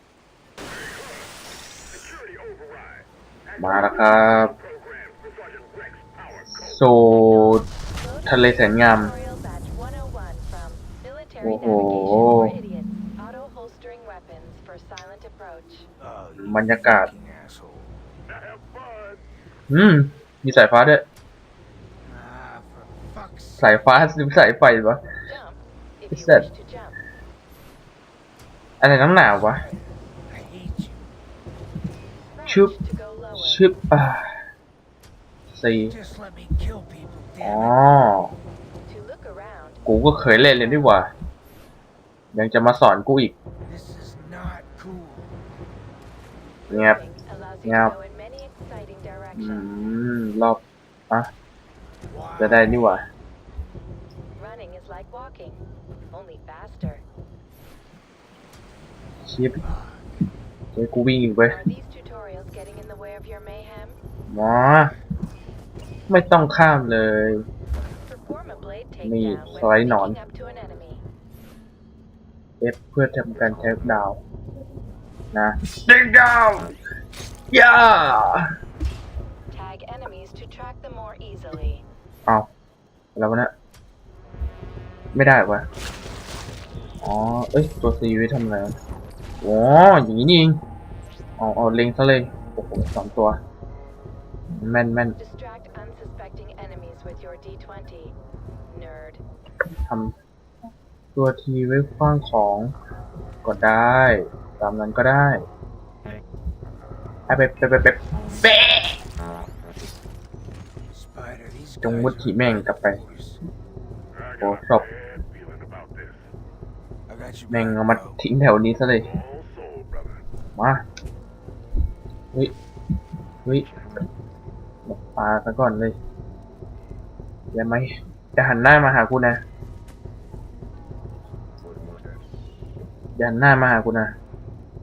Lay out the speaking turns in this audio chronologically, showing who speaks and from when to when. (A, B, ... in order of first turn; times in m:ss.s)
0:03.6-0:04.5 A
0:06.5-0:07.6 A
0:07.0-0:15.9 B
0:08.3-0:09.1 A
0:11.4-0:12.5 A
0:16.0-0:18.0 C
0:16.4-0:17.1 A
0:18.4-0:19.2 D
0:19.7-0:21.0 A
0:22.0-0:23.8 C
0:23.6-0:25.0 A
0:25.3-0:27.0 B
0:26.1-0:26.4 A
0:28.8-0:29.6 A
0:30.3-0:31.0 C
0:32.4-0:33.7 B
0:32.4-0:32.7 A
0:33.4-0:34.3 A
0:35.5-0:35.9 A
0:35.9-0:37.8 C
0:37.4-0:38.3 A
0:38.8-0:41.1 B
0:39.8-0:41.1 A
0:42.3-0:43.3 A
0:43.6-0:45.3 C
0:46.7-0:49.7 B
0:46.7-0:47.0 A
0:47.6-0:47.9 A
0:49.4-0:51.3 A
0:52.0-0:53.1 C
0:52.4-0:53.0 A
0:54.4-0:57.0 B
0:59.2-0:59.6 A
0:59.6-1:00.2 C
1:00.7-1:01.6 A
1:01.5-1:04.0 B
1:04.3-1:04.9 A
1:06.1-1:07.4 A
1:08.0-1:11.0 B
1:09.0-1:10.2 A
1:12.6-1:14.2 A
1:15.3-1:16.7 A
1:17.5-1:18.5 A
1:19.5-1:21.8 B
1:23.1-1:23.5 A
1:25.1-1:25.7 A
1:27.0-1:28.8 A
1:29.4-1:30.6 A
1:31.4-1:33.4 A
1:34.5-1:35.2 A
1:35.2-1:38.1 B
1:38.7-1:39.2 B
1:39.9-1:40.1 A
1:41.1-1:42.7 A
1:43.4-1:45.4 A
1:47.3-1:49.0 A
1:50.8-1:53.4 C
1:51.8-1:53.0 A
1:54.2-1:56.2 D
1:54.4-1:54.8 A
1:57.1-1:58.2 C
1:57.5-1:59.1 A
1:59.1-2:00.1 D
2:00.6-2:00.8 A
2:04.8-2:06.0 A
2:07.5-2:09.4 A
2:13.2-2:14.1 A